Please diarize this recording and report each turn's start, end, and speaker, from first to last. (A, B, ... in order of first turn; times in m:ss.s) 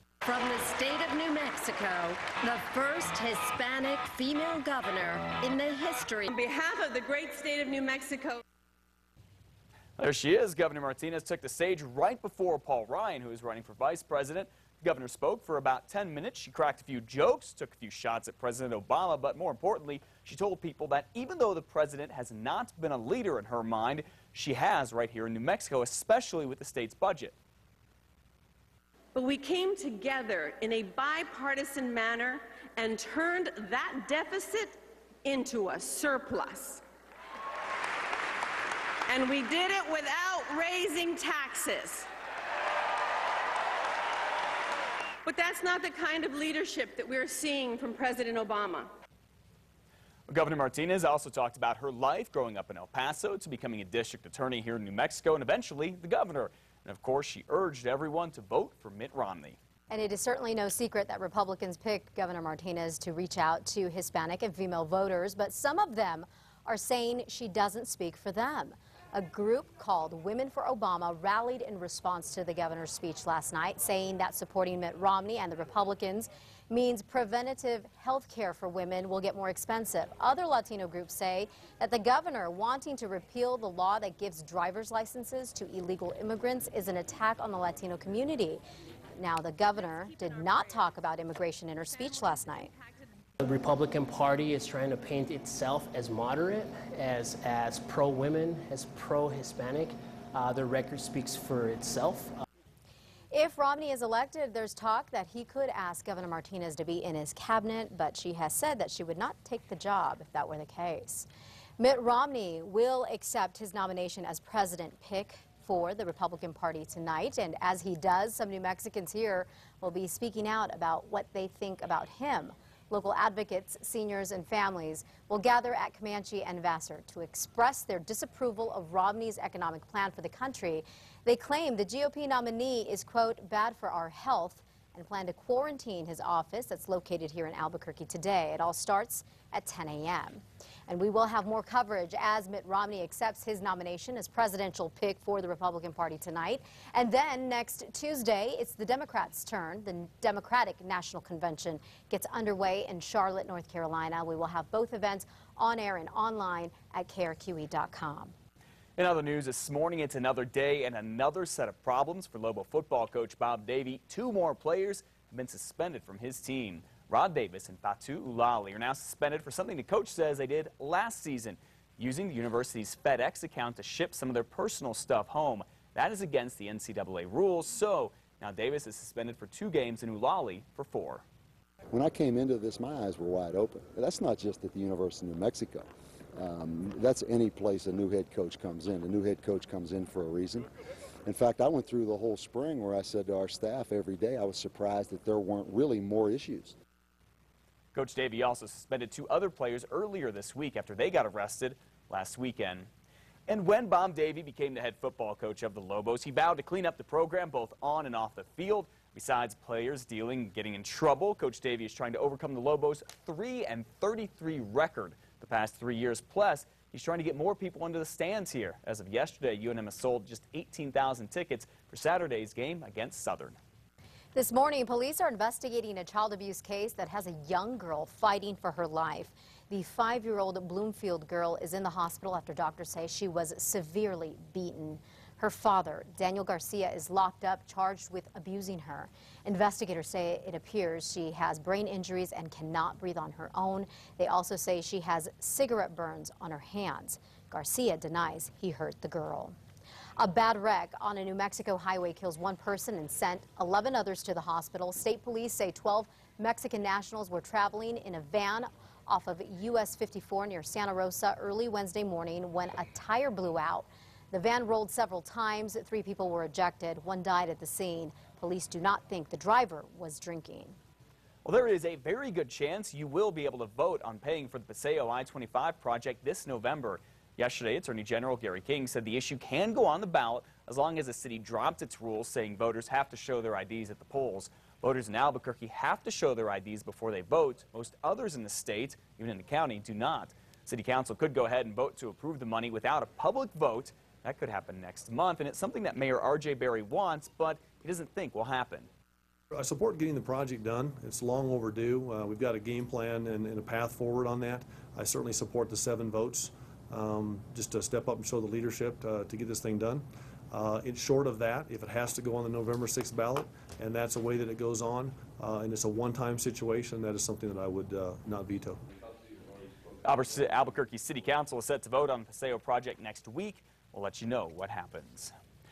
0:00.2-0:06.3 A
0:06.3-0:08.4 B
0:10.0-0:27.3 C
0:29.2-0:36.8 B
0:39.1-0:42.1 B
0:45.3-0:48.9 B
0:50.3-0:59.6 C
0:59.9-1:28.6 D
1:29.2-1:32.7 D
1:33.4-1:42.4 E
1:43.3-1:51.3 D
1:51.8-2:38.3 D
2:39.0-3:01.2 C
3:01.9-3:10.7 F
3:11.3-3:16.8 F
3:17.9-3:22.9 C
3:23.5-3:43.6 C
3:44.3-4:09.5 D
4:10.2-4:30.8 D
4:31.4-4:58.9 C
4:59.5-5:18.8 G
5:20.0-5:25.3 C